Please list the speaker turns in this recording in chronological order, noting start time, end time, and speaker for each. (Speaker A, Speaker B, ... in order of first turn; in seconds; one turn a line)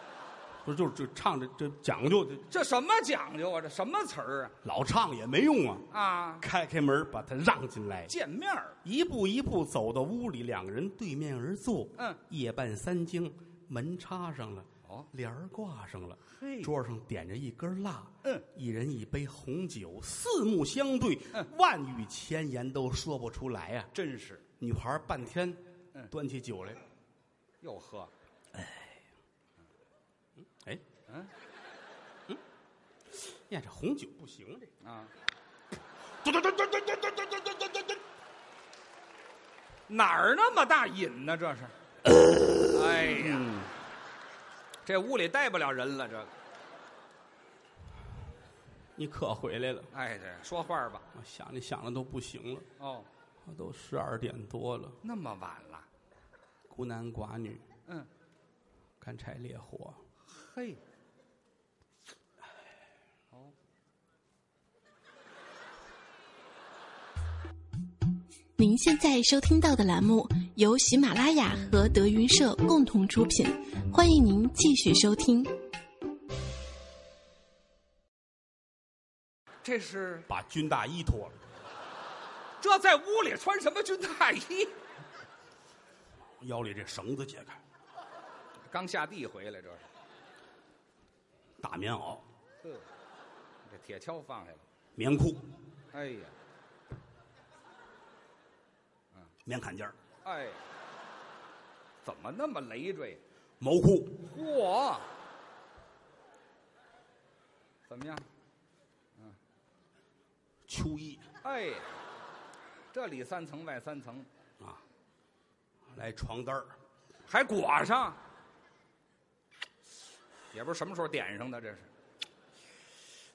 Speaker A: 0.6-2.4
Speaker B: 2.5-4.5
Speaker A: 4.6-5.8
Speaker B: 5.9-6.4
Speaker A: 6.4-8.1
Speaker B: 8.1-8.8
Speaker A: 8.8-23.9
Speaker B: 16.3-16.7
Speaker B: 23.9-24.4
Speaker A: 24.6-26.8
Speaker B: 27.6-28.1
Speaker A: 33.5-34.7
Speaker B: 34.8-35.1
Speaker A: 36.2-38.0
Speaker B: 39.9-41.7
Speaker A: 42.1-43.7
Speaker B: 42.7-43.5
Speaker B: 44.8-46.3
Speaker A: 49.0-49.9
Speaker B: 49.9-51.1
Speaker A: 51.1-52.7
Speaker B: 52.8-53.1
Speaker A: 53.5-55.0
Speaker B: 55.0-55.9
Speaker A: 56.7-57.6
Speaker A: 59.0-60.0
Speaker B: 60.2-60.8
Speaker C: 68.6-75.5
Speaker B: 79.6-80.3
Speaker A: 80.3-81.3
Speaker B: 82.6-84.8
Speaker A: 86.4-87.6
Speaker B: 88.7-89.9
Speaker A: 91.6-92.2
Speaker B: 92.6-92.8
Speaker B: 93.6-94.6
Speaker A: 95.0-95.4
Speaker B: 95.9-96.3
Speaker A: 99.4-100.0
Speaker B: 100.2-100.6
Speaker B: 102.0-103.2
Speaker A: 103.6-104.2
Speaker B: 104.2-105.1
Speaker B: 107.9-108.2
Speaker A: 110.7-111.2
Speaker B: 111.4-111.9
Speaker B: 112.9-114.3
Speaker A: 115.9-116.7
Speaker B: 117.3-118.2
Speaker B: 120.5-121.9